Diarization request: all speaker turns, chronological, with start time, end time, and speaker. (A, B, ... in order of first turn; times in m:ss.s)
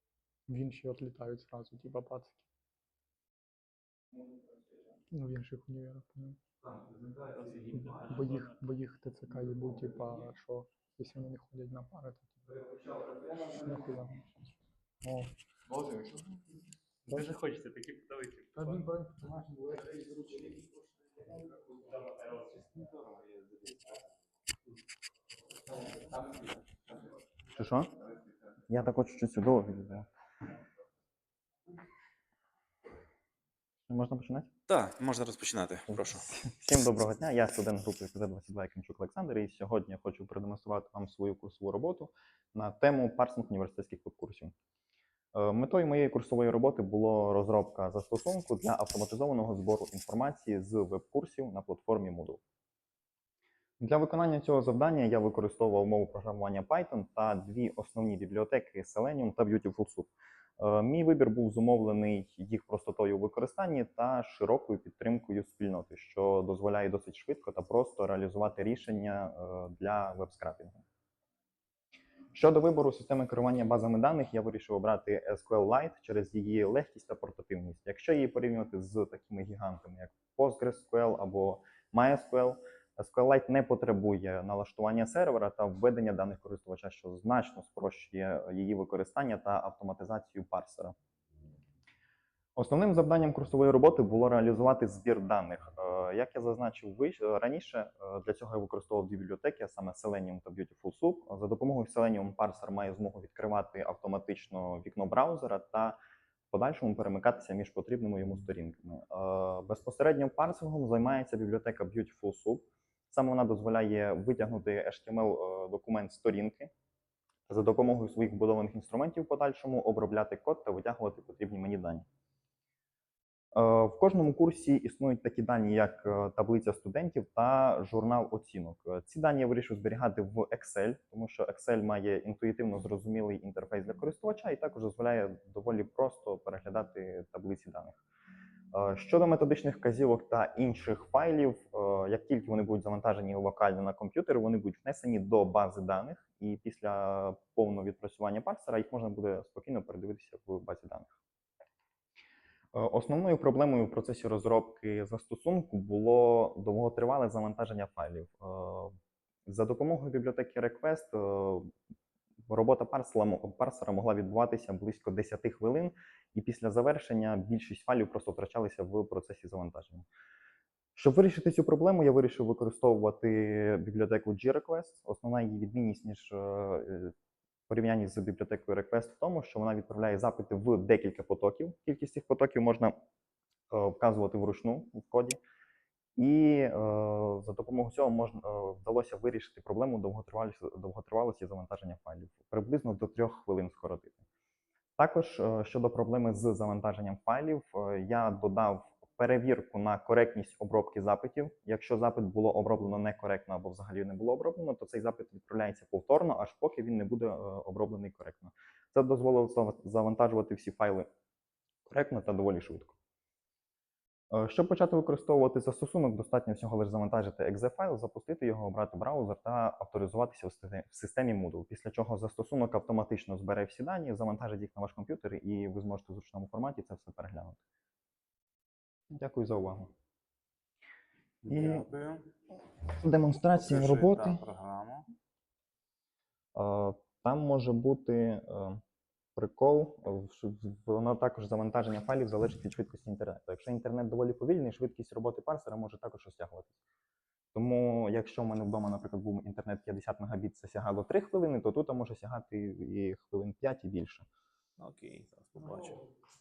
0:00.5-0:02.5 A
0:04.1-0:04.9 B
0:05.1-0:06.4 A
0:06.6-0:07.9 B
0:07.4-0:08.6 C
0:07.7-0:12.6 A
0:12.6-0:13.8 B
0:13.5-0:14.5 A
0:15.0-0:15.3 A
0:15.7-0:16.4 B
0:17.1-0:17.3 A
0:17.1-0:18.8 C
0:18.6-0:19.6 A
0:19.7-0:22.8 C
0:22.1-0:24.0 D
0:27.5-0:27.9 B
0:28.7-0:30.1 B
0:33.9-0:34.5 B
0:34.7-0:36.3 D
0:35.9-0:44.5 B
0:45.3-0:52.4 B
0:53.8-1:10.8 B
1:12.3-1:31.0 B
1:32.6-1:46.0 B
1:46.5-1:56.7 B
1:57.5-2:02.1 B
2:03.6-2:18.0 B
2:18.7-2:31.1 B
2:32.7-2:39.0 B
2:39.5-2:41.7 B
2:42.5-2:50.1 B
2:51.0-2:57.1 B
2:57.7-3:03.0 B
3:03.7-3:05.4 B
3:06.2-3:14.2 B
3:15.0-3:31.1 B
3:31.9-3:33.0 B
3:34.3-3:47.6 B
3:49.1-3:49.9 B
3:51.4-3:52.3 D
3:51.5-3:51.9 B
3:52.9-3:54.4 B
3:53.4-3:55.1 D
3:56.6-3:58.8 B
3:59.4-4:06.8 B
4:07.6-4:14.3 B
4:14.8-4:16.0 D